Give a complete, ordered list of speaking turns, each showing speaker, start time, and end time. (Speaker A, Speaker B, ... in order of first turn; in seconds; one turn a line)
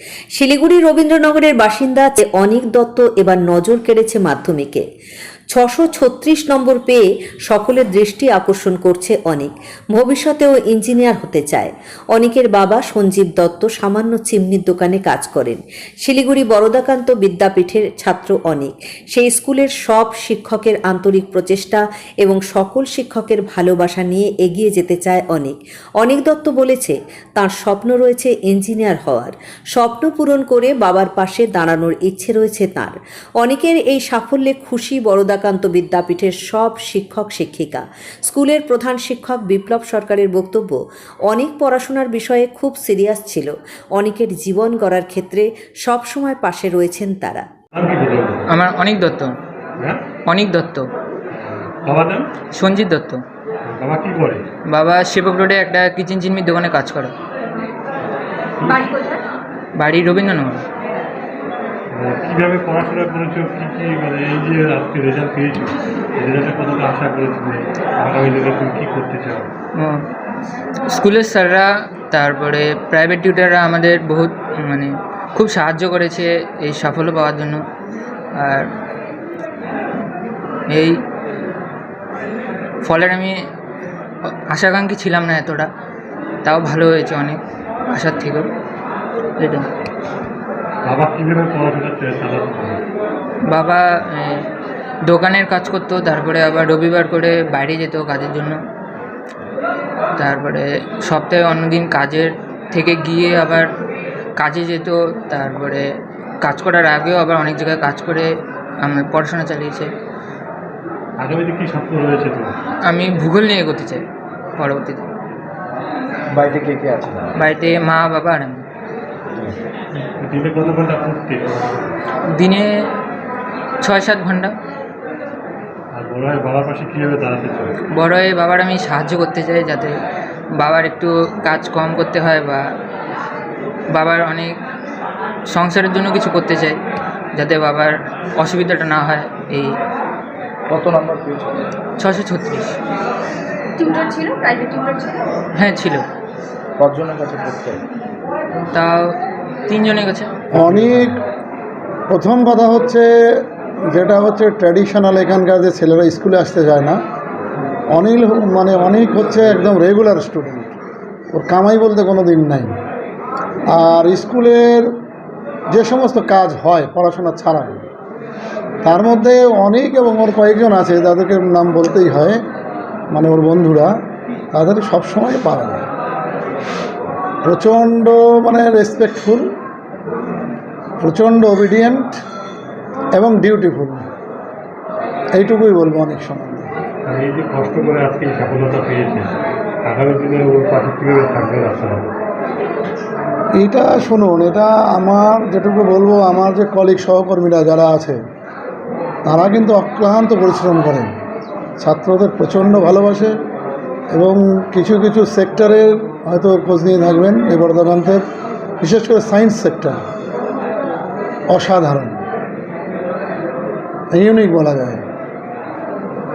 Speaker A: 0.3-4.8
Speaker A: 5.5-47.5
Speaker B: 47.7-48.4
Speaker C: 48.5-49.3
Speaker B: 49.8-50.0
Speaker C: 50.3-50.9
Speaker B: 51.3-52.3
Speaker C: 52.6-53.2
Speaker B: 53.6-54.5
Speaker C: 54.7-57.1
Speaker D: 58.6-59.2
Speaker C: 59.8-60.6
Speaker B: 61.9-69.5
Speaker C: 70.9-77.6
Speaker C: 78.4-78.7
Speaker C: 80.7-81.0
Speaker C: 82.8-83.3
Speaker C: 84.5-85.7
Speaker C: 86.4-87.4
Speaker C: 87.9-88.5
Speaker C: 89.4-89.7
Speaker B: 90.8-92.8
Speaker C: 93.5-94.4
Speaker C: 95.1-98.6
Speaker C: 100.2-103.7
Speaker C: 104.4-105.8
Speaker C: 106.4-108.3
Speaker C: 108.8-109.9
Speaker B: 111.2-112.5
Speaker C: 112.9-114.0
Speaker C: 114.6-115.0
Speaker E: 116.3-117.3
Speaker C: 117.4-118.6
Speaker B: 119.9-121.9
Speaker C: 122.3-122.7
Speaker C: 123.8-124.5
Speaker B: 125.9-127.7
Speaker C: 127.9-129.9
Speaker C: 130.6-132.6
Speaker C: 133.9-134.5
Speaker C: 135.5-136.8
Speaker C: 137.3-139.7
Speaker E: 140.7-141.7
Speaker C: 142.0-142.8
Speaker D: 143.8-145.4
Speaker C: 145.6-146.0
Speaker E: 146.8-147.8
Speaker C: 148.7-149.1
Speaker C: 149.7-150.3
Speaker F: 150.5-151.2
Speaker B: 150.6-151.1
Speaker F: 152.1-153.1
Speaker F: 153.8-157.0
Speaker F: 157.9-160.8
Speaker F: 161.3-162.7
Speaker F: 163.7-164.9
Speaker F: 165.7-167.8
Speaker F: 168.8-172.4
Speaker F: 173.1-173.9
Speaker F: 174.5-175.8
Speaker F: 177.4-179.5
Speaker F: 181.0-182.2
Speaker F: 183.2-184.1
Speaker F: 185.3-186.7
Speaker B: 187.1-189.3
Speaker B: 189.8-192.1
Speaker F: 193.6-198.2
Speaker F: 199.2-201.1
Speaker F: 201.8-203.3
Speaker F: 204.1-208.2
Speaker F: 208.8-210.0
Speaker F: 211.5-212.2
Speaker F: 214.1-215.0